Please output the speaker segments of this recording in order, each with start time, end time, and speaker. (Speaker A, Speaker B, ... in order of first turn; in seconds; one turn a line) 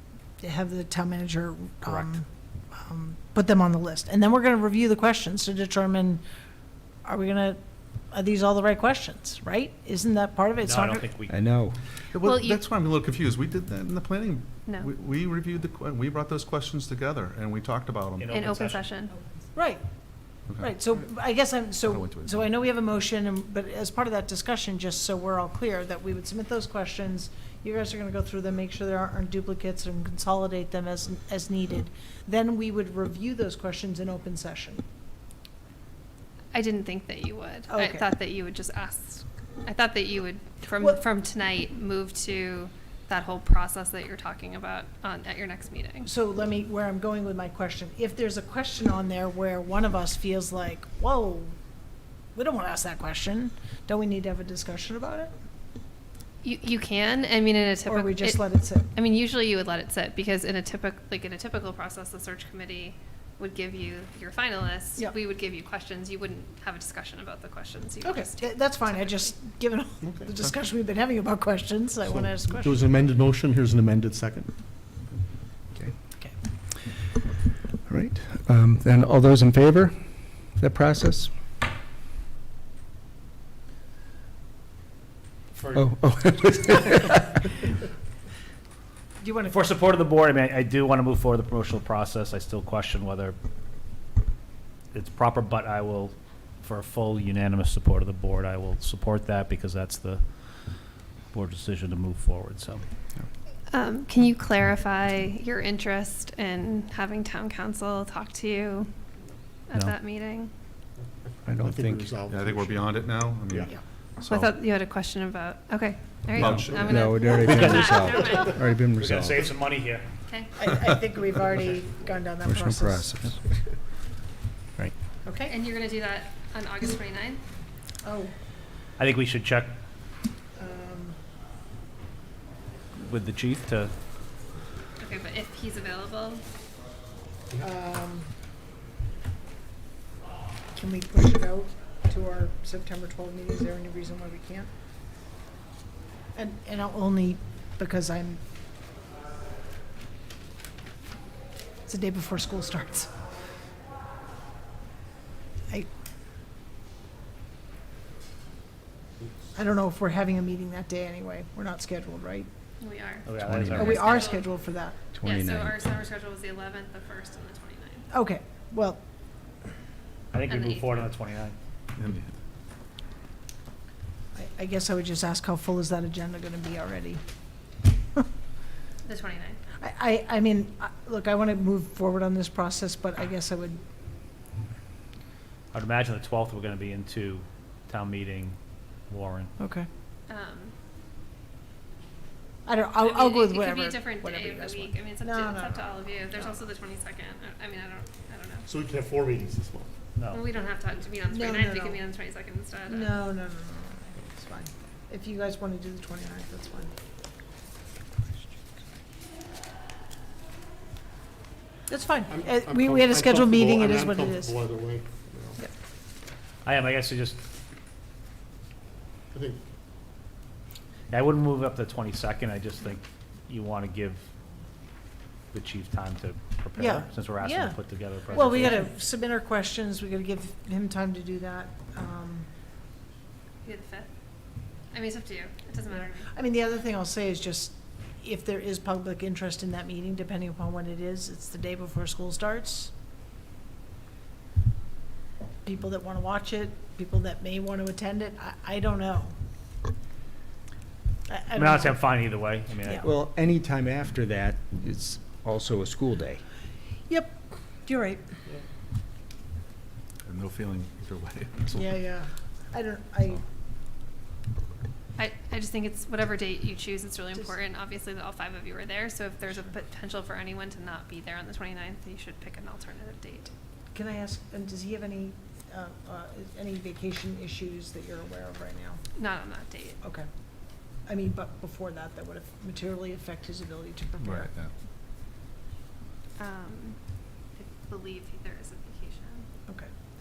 Speaker A: 0.4-6.2
Speaker A: 7.0-7.6
Speaker A: 8.1-11.1
Speaker B: 10.6-11.4
Speaker C: 11.3-11.8
Speaker D: 12.1-18.6
Speaker E: 12.2-12.6
Speaker B: 18.2-18.8
Speaker E: 18.3-19.1
Speaker A: 19.5-19.8
Speaker D: 20.5-20.7
Speaker A: 20.6-34.8
Speaker D: 21.8-22.5
Speaker E: 36.5-46.1
Speaker A: 37.7-38.1
Speaker A: 46.0-51.5
Speaker A: 52.3-55.3
Speaker E: 56.4-69.3
Speaker A: 57.9-58.9
Speaker A: 68.0-72.9
Speaker F: 70.0-70.3
Speaker F: 72.0-74.5
Speaker C: 77.9-81.3
Speaker C: 85.7-87.4
Speaker A: 89.2-89.8
Speaker B: 89.5-93.4
Speaker B: 94.9-102.8
Speaker E: 103.7-108.9
Speaker E: 109.7-110.5
Speaker C: 111.5-112.1
Speaker F: 111.6-113.7
Speaker D: 112.3-114.6
Speaker E: 114.2-118.8
Speaker D: 116.3-117.4
Speaker C: 116.4-119.4
Speaker B: 117.4-118.2
Speaker B: 119.0-120.1
Speaker E: 120.3-120.5
Speaker A: 120.6-123.3
Speaker C: 122.5-123.4
Speaker A: 125.2-125.5
Speaker E: 125.5-127.4
Speaker A: 128.0-128.3
Speaker B: 129.0-129.8
Speaker A: 130.6-131.2
Speaker B: 132.9-133.9
Speaker E: 135.0-136.4
Speaker A: 137.6-138.3
Speaker A: 140.7-144.7
Speaker A: 146.3-148.4
Speaker A: 151.8-153.1
Speaker A: 159.6-162.5
Speaker E: 162.8-164.5
Speaker B: 163.2-164.1
Speaker C: 163.4-164.1
Speaker A: 163.8-165.0
Speaker C: 165.1-165.9
Speaker E: 165.2-168.1
Speaker A: 168.1-169.0
Speaker B: 170.3-171.6
Speaker E: 170.5-171.1
Speaker D: 172.0-172.3
Speaker A: 174.3-177.2
Speaker E: 179.1-179.6
Speaker A: 179.8-183.8
Speaker B: 185.7-188.6
Speaker B: 189.1-189.5
Speaker A: 189.6-189.9
Speaker E: 190.3-190.7
Speaker A: 192.7-196.6
Speaker E: 193.0-198.7
Speaker F: 198.7-199.9
Speaker B: 200.2-200.4
Speaker E: 200.3-203.2
Speaker A: 201.3-202.0
Speaker A: 202.9-206.9
Speaker A: 211.9-214.6
Speaker F: 212.3-215.6
Speaker B: 216.7-217.4
Speaker F: 219.3-219.6
Speaker B: 221.1-224.2
Speaker B: 225.5-228.9
Speaker A: 226.8-232.5
Speaker E: 233.6-234.1
Speaker E: 234.9-236.3
Speaker A: 235.9-242.9
Speaker A: 245.7-249.4
Speaker A: 251.3-252.1
Speaker B: 251.6-253.1
Speaker C: 253.0-256.4
Speaker A: 257.1-258.2
Speaker D: 260.2-262.0
Speaker A: 261.8-263.4
Speaker E: 265.2-273.5
Speaker A: 273.9-279.0
Speaker E: 279.2-280.0
Speaker A: 280.0-280.3
Speaker A: 281.1-284.5
Speaker D: 284.2-284.7
Speaker E: 286.4-287.0
Speaker E: 287.5-289.5